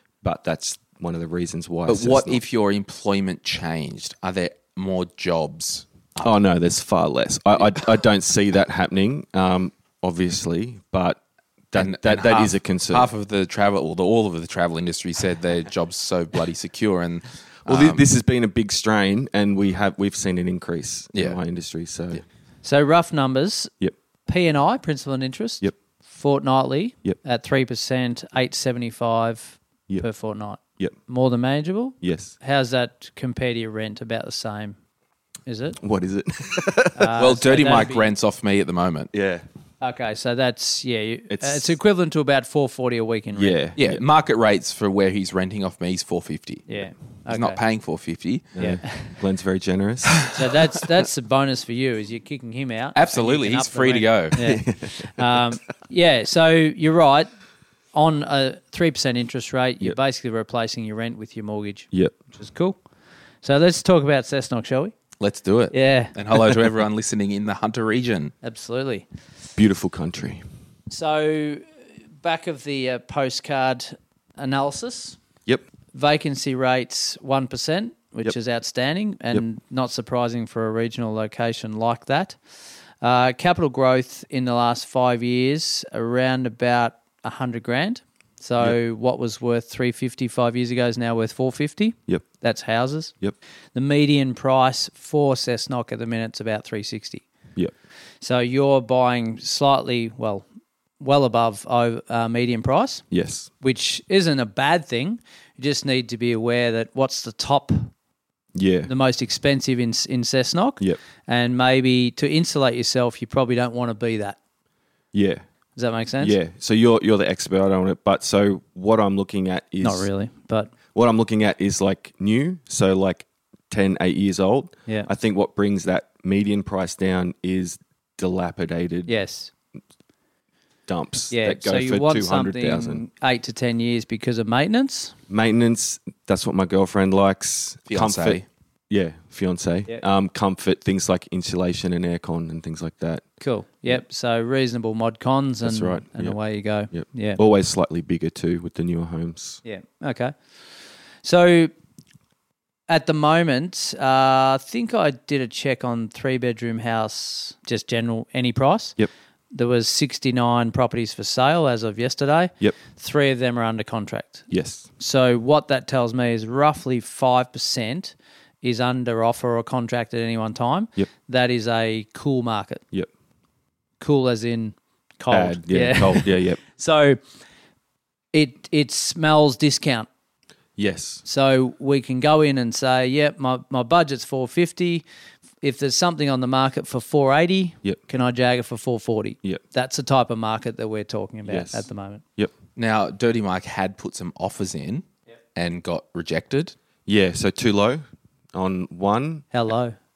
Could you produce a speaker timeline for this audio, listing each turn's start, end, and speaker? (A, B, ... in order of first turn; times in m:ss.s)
0:00.2-0:02.4 A
0:01.9-0:06.1 B
0:06.2-0:13.1 A
0:11.8-0:18.0 B
0:17.7-0:22.2 A
0:21.1-0:21.4 B
0:22.6-0:23.7 C
0:24.3-0:34.8 C
0:30.6-0:31.0 A
0:32.0-0:32.4 A
0:35.5-0:35.8 C
0:35.8-0:37.1 A
0:37.0-0:38.1 C
0:37.2-0:39.1 B
0:39.1-0:39.4 A
0:39.8-0:43.6 C
0:41.3-0:41.7 A
0:43.4-0:44.0 A
0:43.8-0:48.5 B
0:46.7-0:47.6 C
0:48.5-0:50.3 A
0:48.6-0:49.2 C
0:50.3-0:57.3 C
0:53.0-0:54.4 B
0:54.4-0:55.4 A
0:57.9-1:02.8 C
1:03.4-1:04.9 C
1:05.2-1:08.3 B
1:05.7-1:06.1 C
1:08.4-1:09.1 C
1:09.6-1:10.4 A
1:10.9-1:11.6 C
1:12.2-1:15.2 C
1:15.9-1:22.4 C
1:23.0-1:33.1 C
1:33.8-1:37.2 C
1:38.2-1:40.4 C
1:41.0-1:43.0 C
1:43.1-1:43.5 A
1:43.6-1:47.9 C
1:48.5-1:48.9 A
1:48.9-1:54.4 C
1:55.1-1:55.4 A
1:55.8-1:56.4 C
1:56.2-2:00.1 A
1:59.8-2:00.7 C
2:00.9-2:09.2 A
2:09.1-2:09.5 C
2:10.9-2:13.0 A
2:11.3-2:15.2 C
2:15.3-2:24.0 A
2:17.9-2:18.4 B
2:23.4-2:27.4 C
2:25.6-2:29.6 A
2:29.6-2:31.7 C
2:32.9-2:39.0 C
2:39.5-2:52.8 C
2:44.5-2:44.9 A
2:54.0-2:57.2 C
2:55.3-2:56.6 A
2:58.3-3:00.1 C
3:00.8-3:01.2 A
3:01.2-3:05.0 C
3:05.6-3:12.2 C
3:11.4-3:12.5 A
3:12.8-3:16.8 B
3:17.1-3:19.5 A
3:19.5-3:20.0 C